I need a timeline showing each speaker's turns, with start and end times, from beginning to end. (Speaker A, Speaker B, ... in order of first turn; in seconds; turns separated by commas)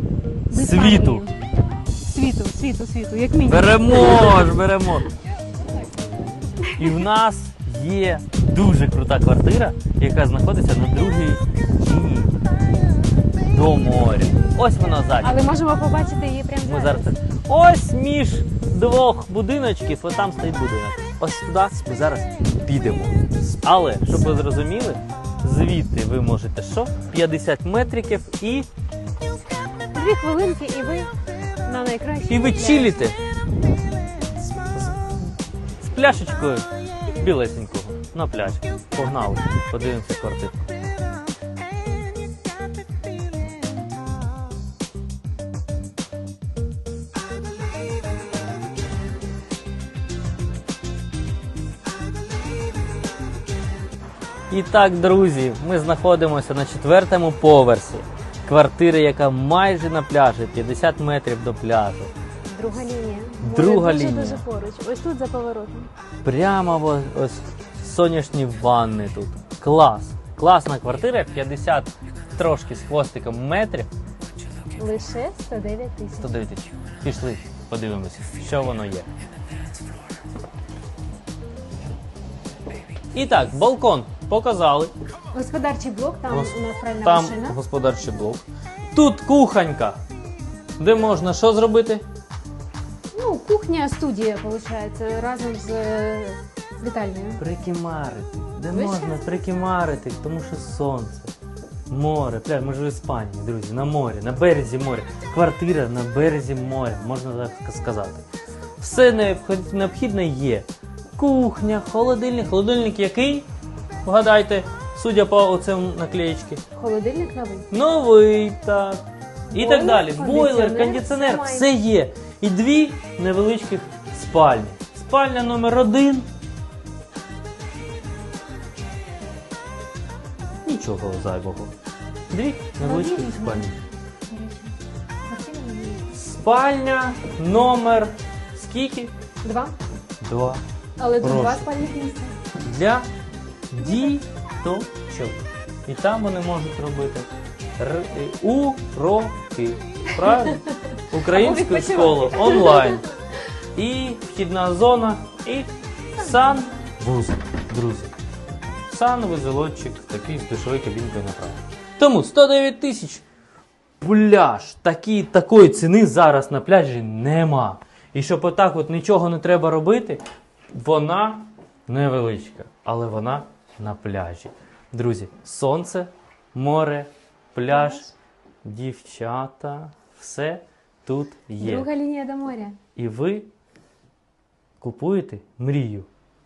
Speaker A: 0.5-1.3, Speaker B: 0.5-1.2, Speaker A: 2.1-4.5, Speaker B: 3.5-5.1, Speaker A: 6.6-7.0, Speaker B: 6.8-12.4, Speaker B: 13.5-15.4, Speaker A: 15.2-17.1, Speaker B: 16.6-28.7, Speaker A: 29.9-31.1, Speaker A: 31.6-33.0, Speaker B: 32.3-33.2, Speaker B: 34.7-35.1, Speaker B: 35.8-40.6, Speaker B: 54.5-62.1, Speaker A: 62.5-65.9, Speaker B: 63.4-64.4, Speaker B: 66.2-73.9, Speaker A: 74.8-76.3, Speaker B: 76.2-79.1, Speaker B: 83.1-84.9, Speaker A: 85.3-87.6, Speaker B: 86.3-90.0, Speaker B: 90.8-92.0, Speaker A: 93.1-97.4, Speaker B: 97.4-101.3, Speaker A: 98.7-99.4, Speaker B: 101.9-108.3, Speaker B: 108.8-113.5, Speaker B: 114.0-116.6, Speaker A: 116.7-117.7, Speaker B: 117.7-126.3, Speaker A: 119.5-121.7, Speaker B: 130.7-131.7, Speaker B: 132.3-133.8, Speaker A: 132.8-136.1, Speaker B: 136.1-139.1, Speaker A: 139.4-139.8, Speaker B: 140.2-140.6, Speaker A: 141.0-142.4, Speaker B: 141.2-141.7, Speaker B: 142.6-143.1, Speaker B: 143.7-153.1, Speaker A: 150.2-150.7, Speaker A: 151.3-153.0, Speaker B: 153.8-158.1, Speaker B: 158.9-163.2, Speaker B: 164.0-170.2, Speaker B: 170.7-178.1, Speaker A: 177.7-178.1, Speaker B: 178.6-181.9, Speaker A: 181.6-182.8, Speaker B: 183.0-183.5, Speaker B: 184.8-186.1